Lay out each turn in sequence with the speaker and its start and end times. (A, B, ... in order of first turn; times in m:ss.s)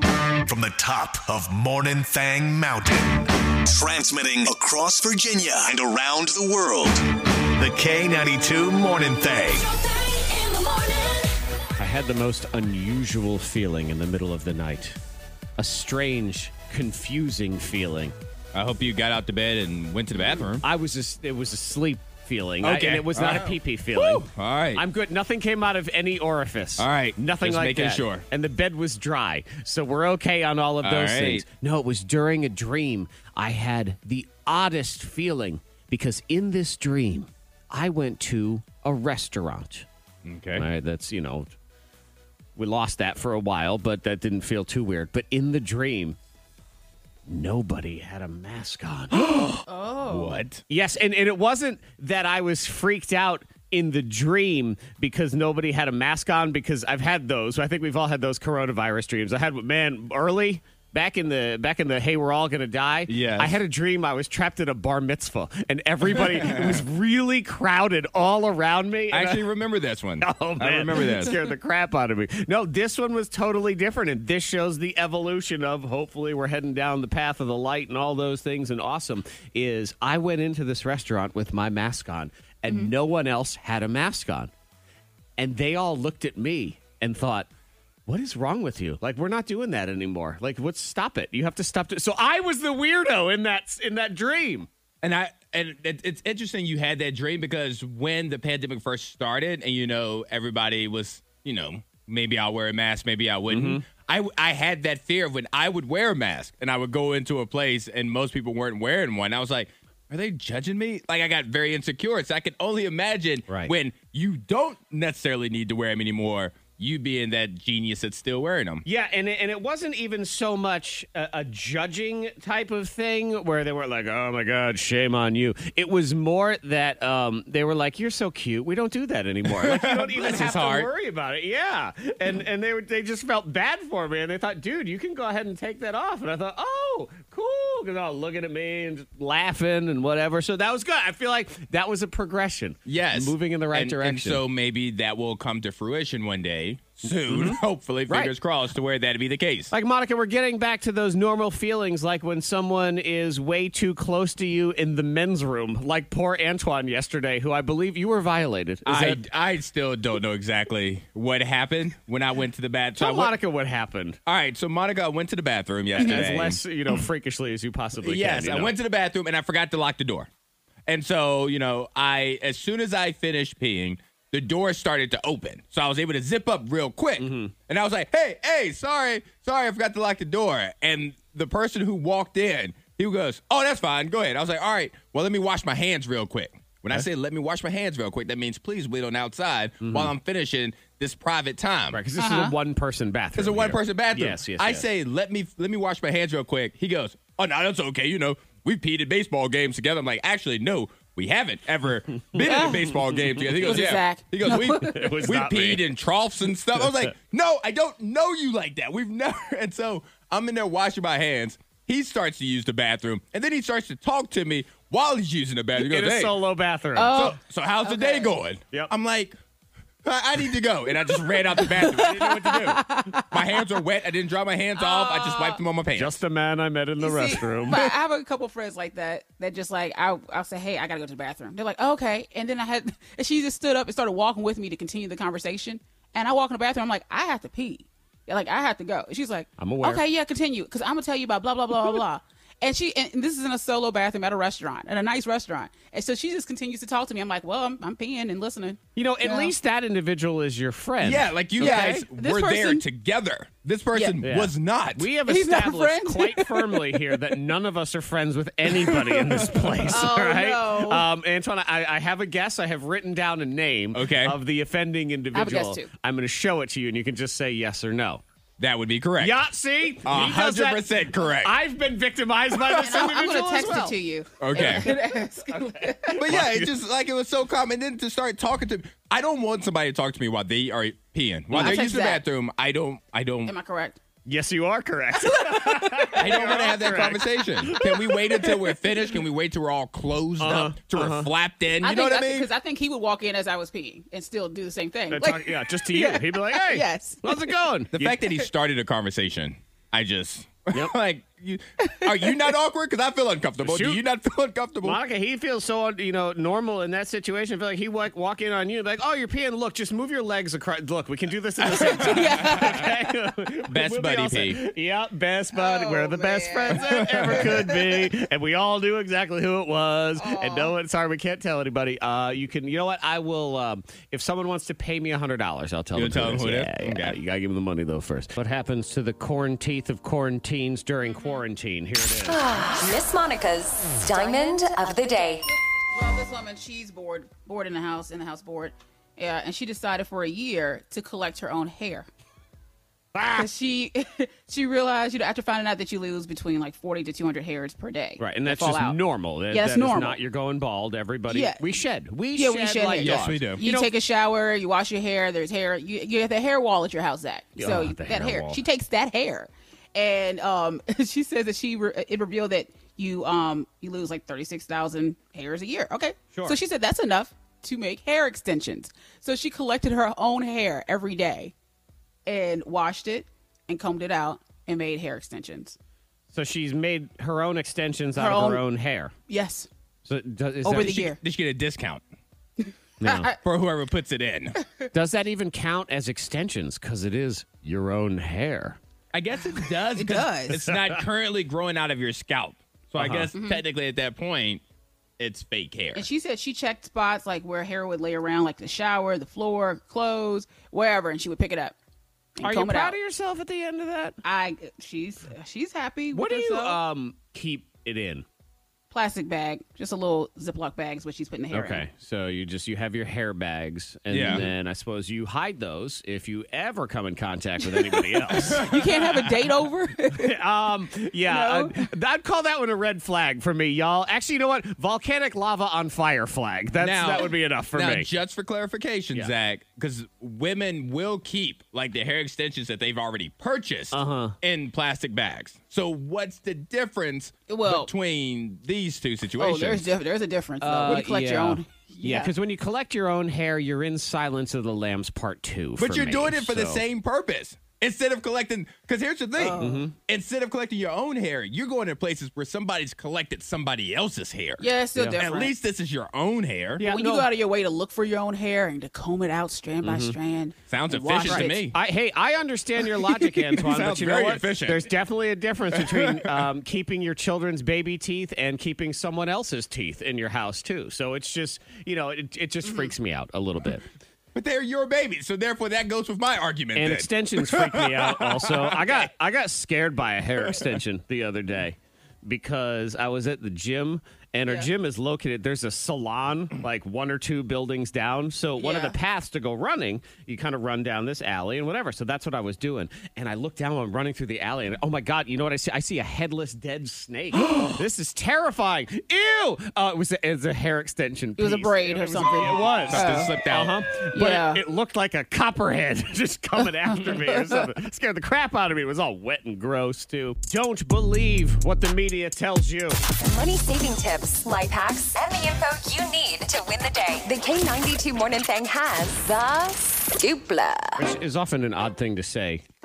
0:00.4-0:09.7 A
0:11.8-0:15.0 B
0:15.6-0:18.2 B
0:18.5-0:20.6 C
0:20.6-0:39.8 B
0:22.6-0:24.8 C
0:26.8-0:28.2 C
0:30.8-0:31.4 C
0:40.2-0:40.7 C
0:40.6-0:41.5 B
0:42.6-0:46.2 B
0:47.3-0:49.3 B
0:49.1-0:50.6 C
0:49.7-0:50.4 D
0:50.7-1:09.5 B
1:03.1-1:03.6 C
1:06.1-1:06.8 C
1:09.1-1:11.4 C
1:10.2-1:24.5 B
1:25.4-1:27.5 B
1:28.0-1:34.7 B
1:35.0-1:58.8 C
1:43.5-1:43.8 B
1:53.5-1:53.7 B
1:58.8-2:24.4 B
2:09.5-2:10.9 C
2:22.8-2:29.7 C
2:27.2-2:28.3 B
2:29.7-2:39.2 B
2:38.8-2:43.3 C
2:43.0-2:44.2 B
2:44.2-2:46.6 C
2:46.0-2:48.7 B
2:48.0-2:50.3 C
2:50.9-3:12.0 C
2:57.2-2:57.5 B
3:09.8-3:10.1 B
3:11.9-3:14.8 B
3:12.2-3:12.5 D
3:13.4-3:36.4 C
3:22.3-3:22.7 B
3:22.4-3:22.9 D
3:23.3-3:25.8 B
3:23.6-3:25.1 D
3:35.8-3:37.3 B
3:36.9-3:38.3 D
3:37.1-3:39.4 C
3:40.0-3:46.1 C
3:41.1-3:43.4 D
3:44.8-3:45.6 D
3:45.9-3:47.8 B
3:47.0-4:09.5 D
3:59.6-4:00.0 B
4:09.0-4:12.0 B
4:11.0-4:15.1 C
4:11.6-4:12.8 D
4:13.9-4:14.2 D
4:14.2-4:28.2 B
4:15.2-4:17.1 D
4:19.2-4:19.7 C
4:19.9-4:21.0 D
4:23.9-4:24.4 C
4:25.3-4:25.9 D
4:28.6-4:29.4 C
4:29.2-4:33.9 B
4:30.0-4:31.6 C
4:32.7-4:36.1 D
4:34.4-4:34.9 C
4:34.5-4:36.7 B
4:36.1-4:43.5 C
4:41.5-4:41.8 B
4:41.5-4:42.2 D
4:43.4-4:44.0 D
4:44.2-4:48.4 B
4:45.5-4:46.1 D
4:46.1-4:52.5 C
4:50.4-4:51.3 B
4:51.8-4:57.6 D
4:55.1-4:58.2 B
4:57.9-5:05.0 C
5:01.8-5:02.1 D
5:03.6-5:04.0 B
5:04.8-5:32.4 B
5:11.6-5:12.7 C
5:11.7-5:13.1 D
5:13.7-5:14.6 C
5:15.5-5:17.8 D
5:16.8-5:17.7 C
5:20.2-5:20.7 D
5:25.9-5:27.2 C
5:31.1-5:31.4 D
5:32.2-5:35.4 E
5:34.2-5:34.5 D
5:35.9-5:42.1 D
5:43.1-5:43.5 B
5:43.4-5:50.2 D
5:48.2-5:53.9 B
5:51.3-5:51.8 D
5:52.3-6:11.5 D
5:53.0-5:53.6 C
5:57.6-5:58.6 B
6:12.3-6:15.8 D
6:16.3-6:19.1 B
6:18.2-6:18.6 D
6:19.3-6:19.7 D
6:20.0-6:21.1 B
6:20.6-6:21.2 D
6:20.7-6:22.0 C
6:23.0-6:23.3 B
6:23.0-6:23.4 D
6:23.4-6:24.6 C
6:24.9-6:28.8 B
6:29.1-6:34.6 C
6:29.8-6:30.6 D
6:30.6-6:31.0 B
6:33.0-6:33.3 B
6:33.3-6:33.6 D
6:35.2-6:36.1 C
6:35.9-6:41.8 D
6:42.4-6:43.0 D
6:42.4-6:44.2 B
6:44.2-6:46.8 D
6:46.1-6:48.2 B
6:48.9-6:51.8 D
6:51.5-6:58.6 B
6:54.1-6:54.4 C
6:58.3-7:00.3 D
6:58.4-6:59.3 C
7:00.1-7:08.1 B
7:01.3-7:01.9 D
7:06.8-7:19.8 C
7:13.9-7:14.4 B
7:17.5-7:17.9 D
7:19.4-7:22.3 D
7:20.6-7:26.8 B
7:25.8-7:36.8 C
7:29.4-7:29.8 D
7:29.6-7:29.9 B
7:34.6-7:35.5 D
7:36.8-7:37.3 B
7:36.8-7:41.6 D
7:39.8-7:40.2 B
7:40.7-7:41.8 C
7:41.2-7:53.8 B
7:43.5-7:44.9 C
7:45.7-7:46.5 C
7:54.3-7:59.0 C
7:56.7-8:33.0 B
8:08.6-8:09.0 D
8:21.4-8:23.4 D
8:22.9-8:23.7 C
8:24.1-8:24.6 D
8:27.0-8:27.6 D
8:33.2-8:41.0 E
8:41.0-8:42.6 B